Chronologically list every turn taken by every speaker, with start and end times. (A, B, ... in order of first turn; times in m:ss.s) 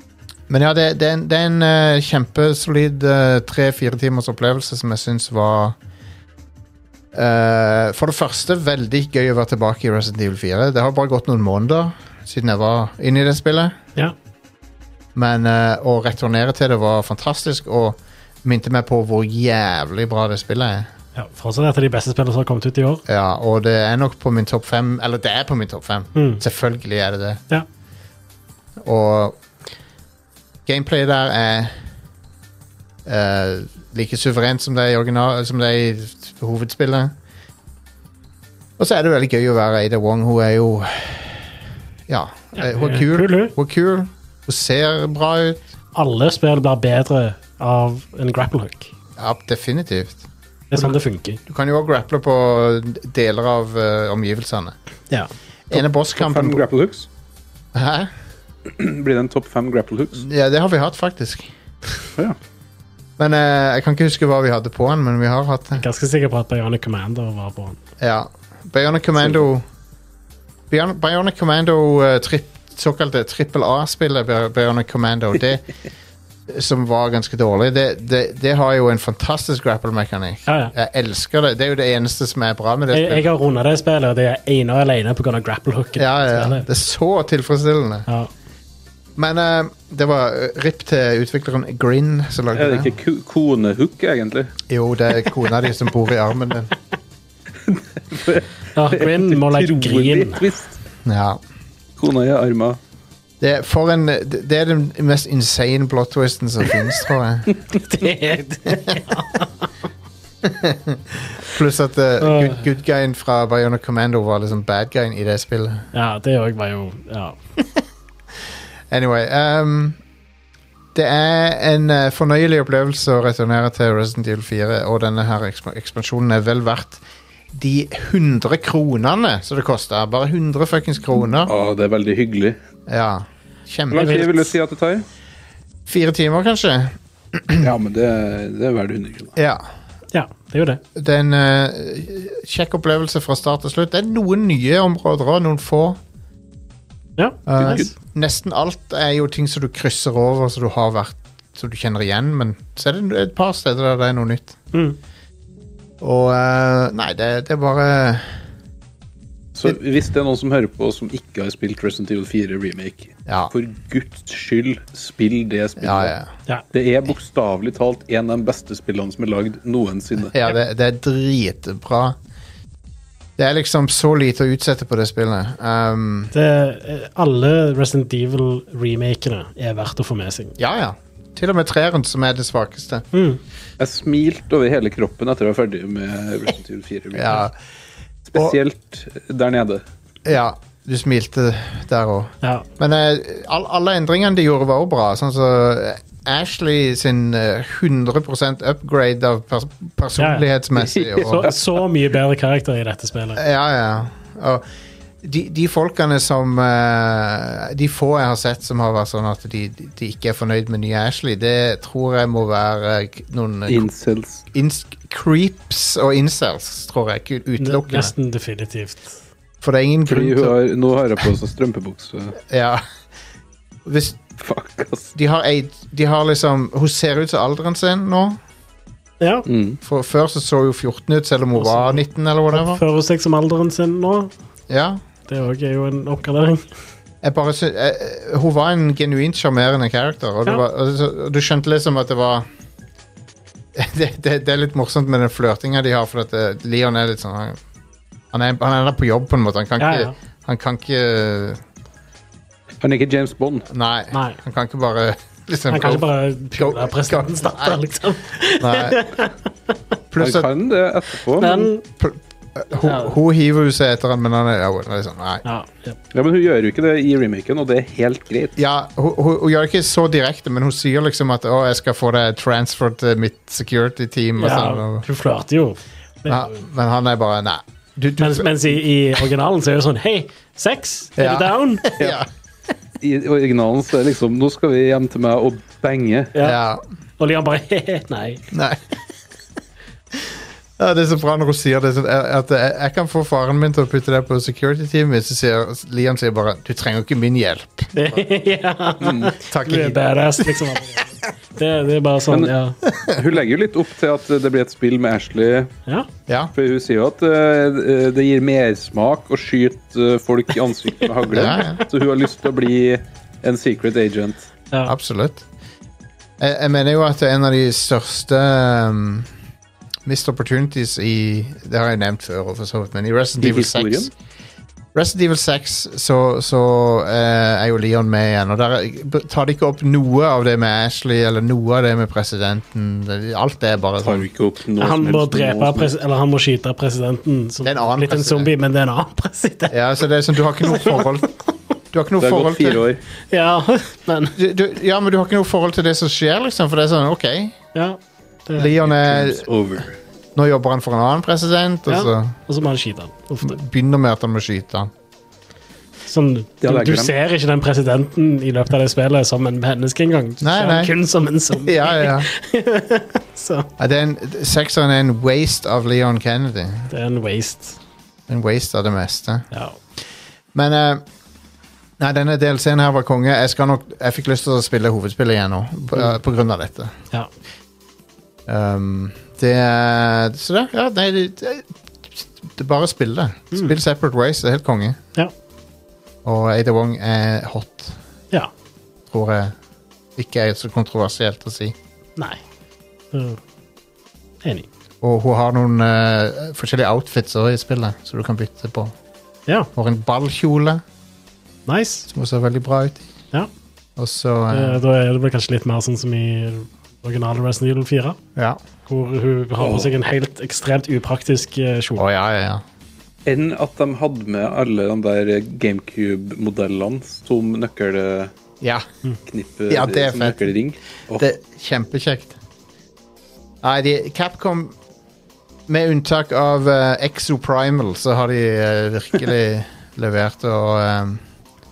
0:00.5-0:05.8 A
0:07.1-0:13.8 A
0:15.2-0:20.9 A
0:21.2-0:23.0 B
0:23.1-0:27.4 A
0:26.2-0:26.4 B
0:28.8-0:29.4 A
0:30.7-0:31.7 A
0:33.1-0:37.1 A
0:38.8-0:41.5 A
0:42.1-0:45.6 A
0:42.6-0:43.6 B
0:46.0-0:48.9 B
0:49.2-0:54.8 A
0:50.7-0:51.4 B
0:55.7-0:56.6 A
0:56.2-0:57.1 C
0:57.7-0:58.1 A
0:58.7-1:00.2 C
1:00.2-1:01.5 A
1:03.2-1:05.8 A
1:05.8-1:07.8 B
1:08.0-1:09.6 A
1:10.7-1:15.7 A
1:16.5-1:23.2 A
1:20.5-1:20.7 B
1:22.9-1:26.7 B
1:26.0-1:28.1 A
1:29.2-1:32.9 A
1:32.5-1:34.5 C
1:34.7-1:36.7 A
1:37.7-1:40.8 C
1:38.8-1:40.4 B
1:41.0-1:41.4 A
1:42.0-1:42.8 C
1:43.4-1:47.6 A
1:47.8-1:49.6 B
1:48.7-1:49.0 A
1:50.4-1:55.9 A
1:52.2-1:52.6 B
1:55.9-1:57.4 B
1:58.9-2:00.0 A
2:01.0-2:07.0 A
2:07.5-2:11.5 A
2:11.5-2:12.6 C
2:12.9-2:14.3 A
2:13.9-2:15.0 C
2:13.9-2:14.5 B
2:15.9-2:17.7 A
2:17.6-2:19.4 C
2:19.4-2:19.7 A
2:20.1-2:20.8 B
2:21.0-2:26.0 A
2:27.2-2:27.9 B
2:27.5-2:34.6 A
2:27.6-2:27.9 C
2:34.7-2:35.0 B
2:36.0-2:38.4 A
2:39.6-2:46.1 C
2:43.3-2:43.5 A
2:45.8-2:46.3 A
2:46.7-2:50.4 C
2:50.3-2:52.2 A
2:53.4-2:56.3 A
2:56.3-3:00.6 B
3:00.6-3:03.1 A
3:03.1-3:03.4 B
3:03.8-3:07.5 C
3:07.2-3:07.5 A
3:08.3-3:09.8 C
3:10.2-3:21.5 A
3:20.2-3:20.5 B
3:20.8-3:21.6 C
3:21.2-3:23.4 B
3:23.4-3:24.6 A
3:25.2-3:33.9 A
3:33.7-3:34.4 C
3:34.5-3:38.1 A
3:37.6-3:39.2 B
3:39.6-3:40.6 A
3:40.1-3:42.4 C
3:42.4-3:42.8 A
3:43.9-3:44.2 A
3:44.4-3:45.1 C
3:45.2-3:48.4 A
3:49.2-3:49.5 B
3:49.5-3:49.8 C
3:49.8-3:52.8 A
3:51.6-3:54.3 B
3:54.7-3:55.0 A
3:55.3-3:56.6 B
3:57.2-4:02.5 A
4:03.8-4:07.6 A
4:08.3-4:11.6 A
4:09.8-4:10.1 B
4:12.8-4:13.7 C
4:13.7-4:17.8 A
4:14.1-4:14.4 B
4:15.7-4:19.3 B
4:18.6-4:19.0 A
4:20.1-4:20.5 A
4:20.2-4:21.7 C
4:21.4-4:21.8 B
4:22.0-4:25.4 A
4:22.8-4:23.2 B
4:25.4-4:26.0 B
4:26.1-4:28.6 C
4:28.6-4:35.0 A
4:34.4-4:36.6 B
4:36.3-4:38.8 A
4:38.2-4:41.9 B
4:41.2-4:42.3 A
4:43.0-4:46.3 C
4:46.4-4:46.6 B
4:46.4-4:46.8 A
4:47.2-4:48.4 B
4:48.5-4:48.8 A
4:50.1-4:58.2 A
4:57.9-5:02.8 B
4:59.0-4:59.3 C
4:59.4-5:00.8 A
5:02.9-5:03.2 A
5:03.1-5:05.7 C
5:06.3-5:06.5 A
5:06.6-5:14.5 C
5:11.3-5:11.8 A
5:14.9-5:15.4 A
5:16.4-5:19.3 A
5:20.1-5:24.1 A
5:23.4-5:24.1 C
5:24.9-5:34.3 A
5:34.0-5:35.9 C
5:34.8-5:39.8 B
5:37.6-5:38.5 A
5:39.7-5:41.3 A
5:40.6-5:41.3 B
5:41.9-5:42.8 A
5:42.2-5:43.0 C
5:43.3-5:44.4 B
5:44.4-5:47.6 A
5:47.7-5:48.8 B
5:48.6-5:49.5 A
5:48.8-5:50.0 C
5:50.4-5:52.4 A
5:51.9-5:53.6 B
5:53.4-5:54.9 A
5:56.1-6:03.7 B
5:56.6-5:57.1 C
6:00.4-6:00.9 A
6:01.6-6:02.3 A
6:03.8-6:06.9 A
6:06.9-6:07.8 B
6:08.3-6:09.5 A
6:09.5-6:09.8 B
6:10.5-6:11.0 A
6:12.0-6:16.9 A
6:18.5-6:25.0 A
6:26.2-6:28.0 A
6:29.1-6:29.6 A
6:30.2-6:31.8 A
6:33.1-6:33.4 B
6:34.4-6:34.7 B
6:35.0-6:38.9 A
6:39.8-6:40.8 A
6:41.7-6:42.1 B
6:42.1-6:43.0 A
6:44.0-6:44.8 A
6:44.5-6:48.2 B
6:48.9-6:52.0 B
6:49.6-6:49.9 C
6:52.0-6:52.6 A
6:53.3-6:58.3 C
6:58.6-6:58.9 A
6:59.3-7:01.3 C
6:59.7-7:00.5 A
7:01.2-7:02.4 A
7:03.6-7:04.8 A
7:05.7-7:11.2 A